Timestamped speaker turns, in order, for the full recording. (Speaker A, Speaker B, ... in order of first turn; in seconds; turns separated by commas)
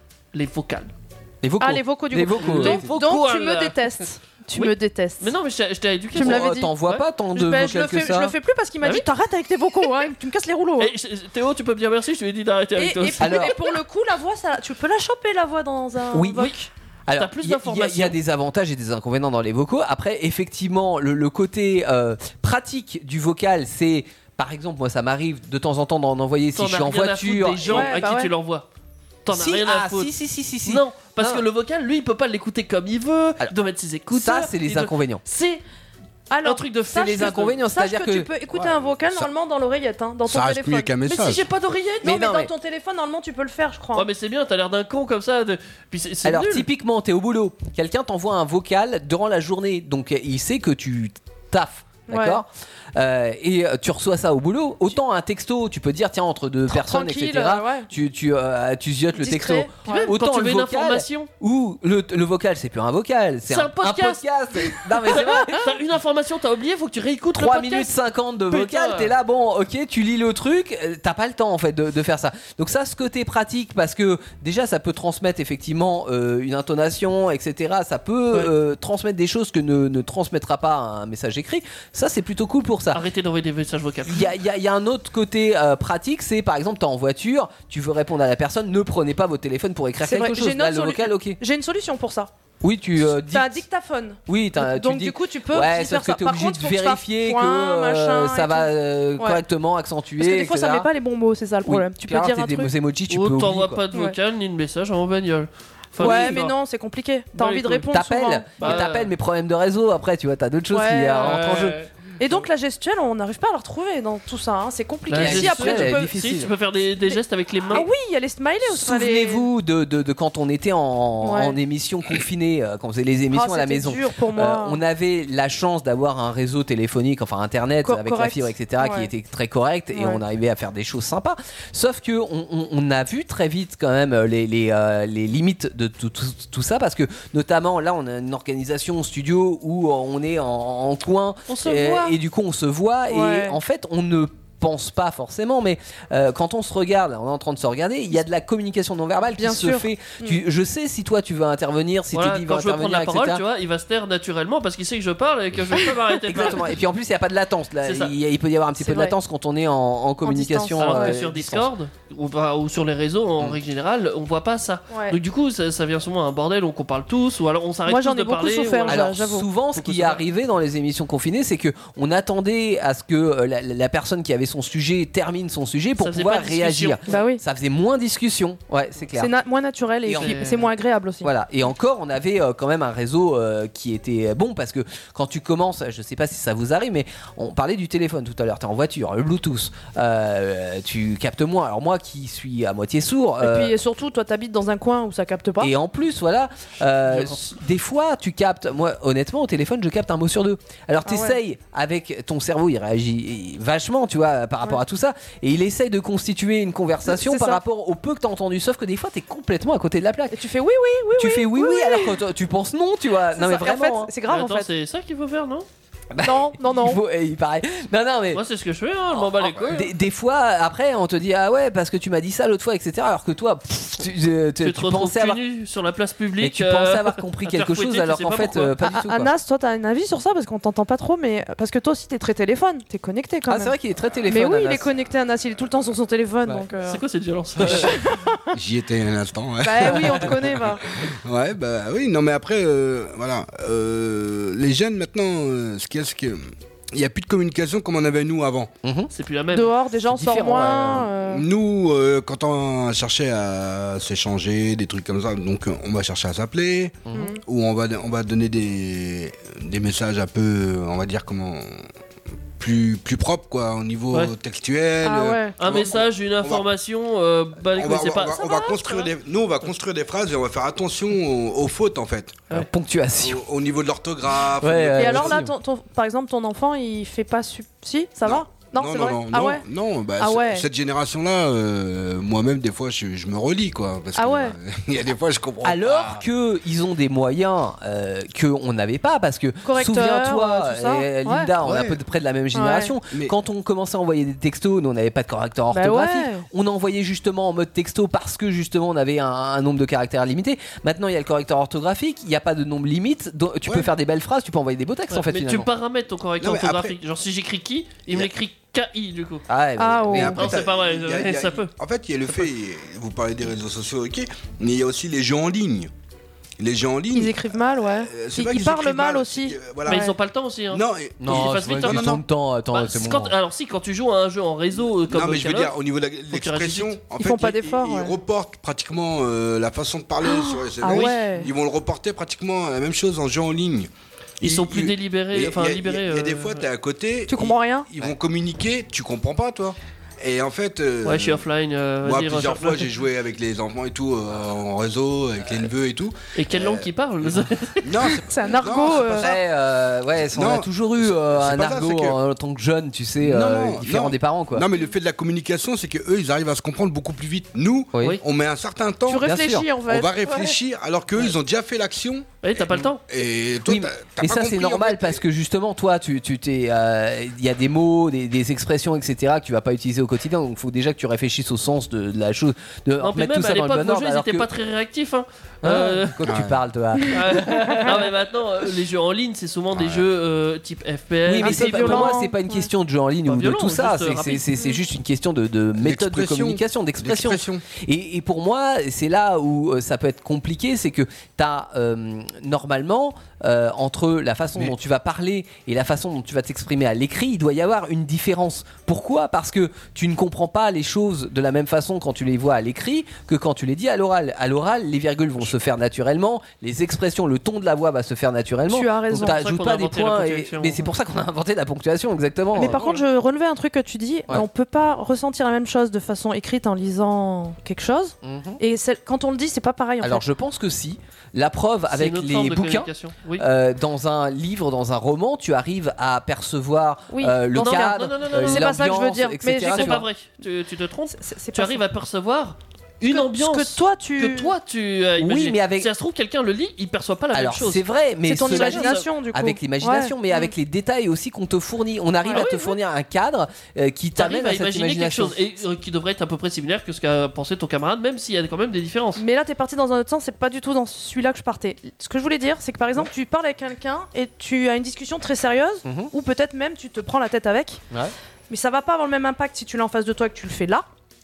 Speaker A: 0.3-0.9, Speaker B: 1.4-2.9, Speaker C: 1.6-5.3, Speaker A: 2.4-3.9, Speaker A: 4.5-7.0, Speaker C: 6.2-6.7, Speaker B: 6.2-8.3, Speaker C: 7.3-10.9, Speaker A: 10.8-13.6, Speaker C: 12.8-16.7, Speaker B: 13.2-13.6, Speaker B: 16.1-16.5, Speaker B: 17.1-28.0, Speaker A: 17.1-18.2, Speaker A: 26.6-28.6, Speaker C: 27.7-28.3, Speaker A: 29.2-30.1, Speaker B: 29.3-31.4, Speaker A: 30.6-35.6, Speaker B: 34.1-35.2, Speaker C: 36.3-44.1, Speaker A: 36.4-37.6, Speaker B: 36.9-38.3, Speaker D: 38.6-39.3, Speaker D: 40.3-41.5, Speaker B: 42.0-42.5, Speaker A: 44.0-46.7, Speaker B: 46.2-65.7, Speaker C: 52.1-52.4, Speaker C: 56.7-57.9, Speaker C: 59.2-60.1, Speaker A: 59.9-61.3, Speaker A: 63.5-64.2, Speaker A: 64.8-67.9, Speaker C: 65.2-65.4, Speaker B: 67.3-83.0, Speaker A: 68.5-69.1, Speaker A: 82.9-84.3, Speaker B: 84.1-91.4, Speaker C: 90.0-92.3, Speaker B: 92.6-93.6, Speaker C: 93.3-99.4, Speaker B: 94.3-100.9, Speaker C: 100.2-102.7, Speaker B: 101.7-103.8, Speaker A: 103.1-106.5, Speaker B: 106.0-106.4, Speaker C: 106.0-108.8, Speaker A: 107.4-107.9, Speaker B: 107.9-111.8, Speaker A: 108.6-109.1, Speaker C: 110.7-111.4, Speaker A: 111.2-111.9, Speaker C: 112.2-116.1, Speaker A: 115.1-117.9, Speaker B: 115.1-116.5, Speaker C: 117.7-119.5, Speaker B: 118.6-153.4, Speaker C: 121.2-121.6, Speaker C: 123.3-124.8, Speaker C: 127.8-129.1, Speaker C: 129.9-130.2, Speaker A: 141.5-142.1, Speaker C: 143.1-143.6, Speaker C: 149.4-150.4, Speaker A: 152.1-156.7, Speaker B: 156.3-161.7, Speaker A: 157.8-158.1, Speaker C: 158.8-159.2, Speaker C: 160.2-161.2, Speaker A: 160.8-169.1, Speaker C: 164.9-165.2, Speaker C: 167.9-169.5, Speaker B: 168.9-179.3, Speaker A: 169.8-170.2, Speaker A: 176.0-177.2, Speaker C: 177.1-177.4, Speaker C: 179.2-181.3, Speaker B: 180.1-180.6, Speaker A: 180.2-180.6, Speaker B: 181.2-193.8, Speaker C: 193.4-195.7, Speaker B: 195.6-210.4, Speaker A: 197.1-197.5, Speaker C: 201.1-201.4, Speaker C: 207.1-207.6, Speaker C: 210.3-212.2, Speaker B: 211.2-214.1, Speaker C: 213.3-214.7, Speaker A: 214.3-215.7, Speaker B: 216.1-218.4, Speaker C: 216.2-217.0, Speaker A: 218.3-219.9, Speaker B: 219.2-225.4, Speaker A: 224.6-228.7, Speaker B: 226.4-229.3, Speaker C: 228.8-233.8, Speaker B: 233.5-234.9, Speaker C: 234.3-237.0, Speaker A: 236.8-238.0, Speaker C: 237.6-238.4, Speaker D: 238.5-240.6, Speaker C: 239.6-240.8, Speaker D: 241.2-248.7, Speaker B: 248.8-249.1, Speaker A: 249.1-249.7, Speaker C: 249.5-251.4, Speaker B: 250.1-251.1, Speaker D: 251.2-261.8, Speaker B: 257.1-257.3, Speaker C: 257.1-257.4, Speaker D: 262.6-266.6, Speaker C: 265.0-265.5, Speaker A: 265.6-269.1, Speaker D: 267.7-272.5, Speaker B: 272.5-273.4, Speaker D: 273.2-275.4, Speaker B: 274.6-275.5, Speaker C: 275.0-279.6, Speaker D: 278.2-286.2, Speaker C: 280.2-280.7, Speaker C: 284.1-284.6, Speaker B: 285.6-305.7, Speaker C: 289.6-291.5, Speaker D: 291.6-292.0, Speaker C: 292.5-292.9, Speaker C: 295.7-296.5, Speaker A: 305.1-309.4, Speaker D: 306.4-307.0, Speaker B: 309.5-310.5, Speaker C: 309.8-310.3, Speaker D: 310.1-315.9, Speaker A: 310.4-311.7, Speaker D: 316.6-317.5, Speaker C: 317.1-320.1, Speaker D: 318.0-320.1, Speaker A: 319.9-322.2, Speaker D: 320.7-322.2, Speaker B: 321.2-323.4, Speaker A: 322.7-325.7, Speaker D: 325.1-333.9, Speaker A: 326.3-326.9, Speaker C: 327.2-328.2, Speaker C: 330.2-331.5, Speaker D: 334.4-341.4, Speaker A: 334.4-336.6, Speaker C: 337.3-337.9, Speaker A: 341.0-342.9, Speaker D: 342.0-349.4, Speaker A: 346.4-347.9, Speaker C: 348.1-349.3, Speaker B: 349.2-354.7, Speaker D: 350.3-352.2, Speaker D: 353.2-362.3, Speaker C: 359.1-360.6, Speaker B: 359.2-359.7, Speaker A: 362.4-363.0, Speaker D: 363.1-365.2, Speaker B: 363.6-374.5, Speaker A: 373.0-376.2, Speaker B: 375.6-378.0, Speaker D: 376.3-376.6, Speaker A: 377.1-382.2, Speaker D: 379.7-380.0, Speaker B: 381.3-412.9, Speaker C: 381.4-382.7, Speaker A: 383.3-384.5, Speaker D: 385.8-387.6, Speaker C: 408.7-409.4, Speaker A: 409.1-410.9, Speaker C: 412.6-420.2, Speaker A: 412.7-412.9, Speaker B: 418.2-418.6, Speaker B: 420.0-430.1, Speaker A: 421.9-423.4, Speaker C: 427.1-430.1, Speaker A: 427.6-428.8, Speaker A: 429.6-437.8, Speaker C: 431.1-431.8, Speaker C: 433.0-434.5, Speaker B: 435.2-435.9, Speaker B: 437.3-445.4, Speaker C: 438.3-440.5, Speaker A: 438.4-439.1, Speaker C: 442.2-442.6, Speaker A: 442.3-442.7, Speaker A: 444.2-449.2, Speaker C: 449.2-457.8, Speaker B: 455.9-456.1, Speaker C: 458.5-460.9